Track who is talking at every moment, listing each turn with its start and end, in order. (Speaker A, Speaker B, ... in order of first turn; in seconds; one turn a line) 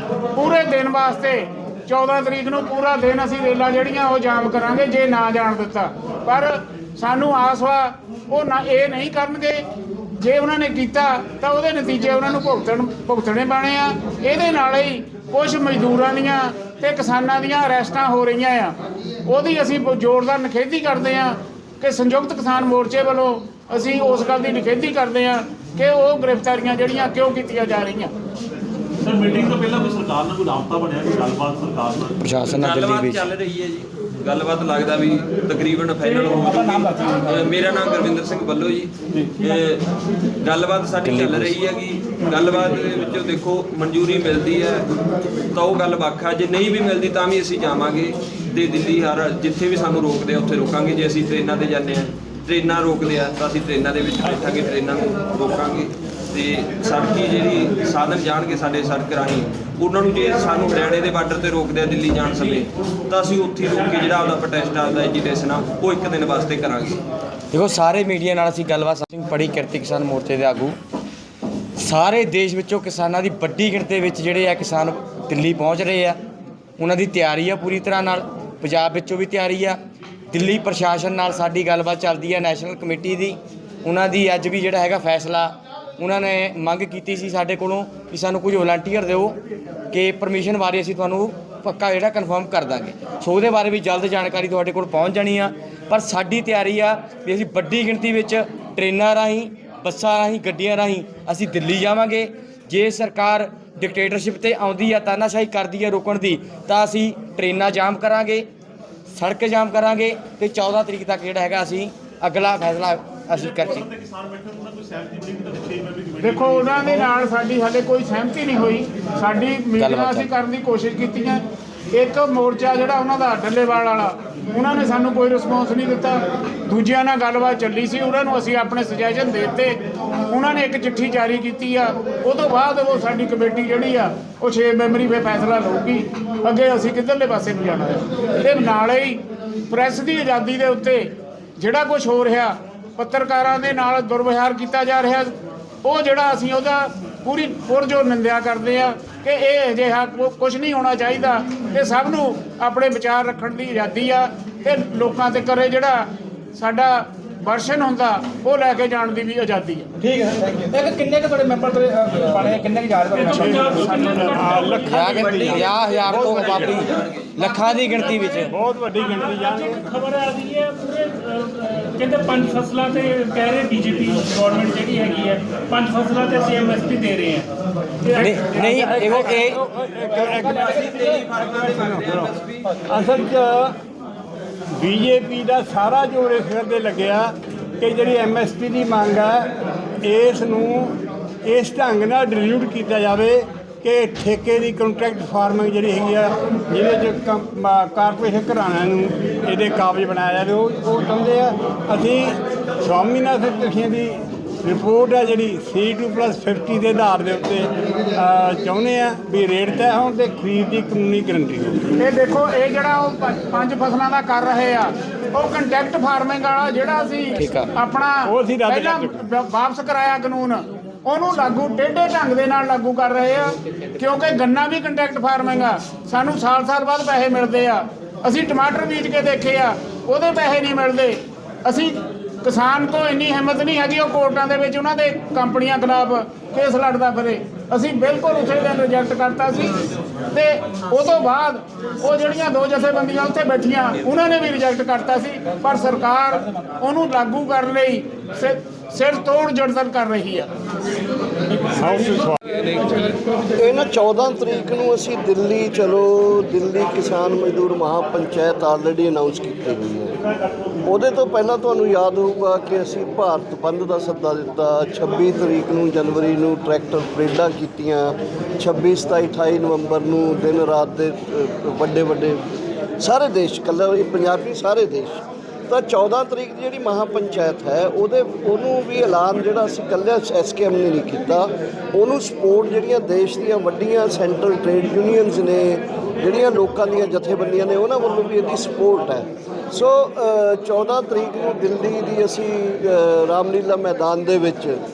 Speaker A: 0.3-9.6
Speaker A: 10.2-18.8
Speaker A: 19.3-28.1
Speaker B: 29.1-32.1
Speaker C: 32.2-33.3
Speaker D: 32.5-39.9
Speaker E: 36.0-37.5
Speaker E: 39.1-39.4
Speaker D: 40.4-44.9
Speaker C: 41.0-41.5
Speaker D: 45.5-67.0
Speaker C: 67.5-70.8
Speaker C: 71.8-76.2
Speaker C: 76.8-79.8
Speaker C: 80.3-89.4
Speaker C: 89.9-108.5
Speaker C: 109.1-113.9
Speaker B: 114.0-116.1
Speaker A: 116.2-129.8
Speaker C: 119.8-120.3
Speaker A: 130.3-145.3
Speaker A: 145.8-159.9
Speaker E: 160.0-164.2
Speaker F: 163.1-165.0
Speaker G: 163.3-166.8
Speaker C: 164.8-168.5
Speaker D: 165.1-167.3
Speaker G: 168.5-169.9
Speaker F: 168.9-177.5
Speaker F: 178.0-179.5
Speaker C: 178.1-179.6
Speaker G: 178.7-183.8
Speaker D: 181.0-182.6
Speaker G: 184.8-189.5
Speaker G: 190.0-190.9
Speaker G: 191.4-211.9
Speaker A: 212.0-250.5
Speaker C: 217.4-217.7
Speaker G: 218.3-219.3
Speaker G: 251.7-252.4
Speaker H: 253.6-260.1
Speaker H: 260.9-272.4
Speaker H: 273.0-294.8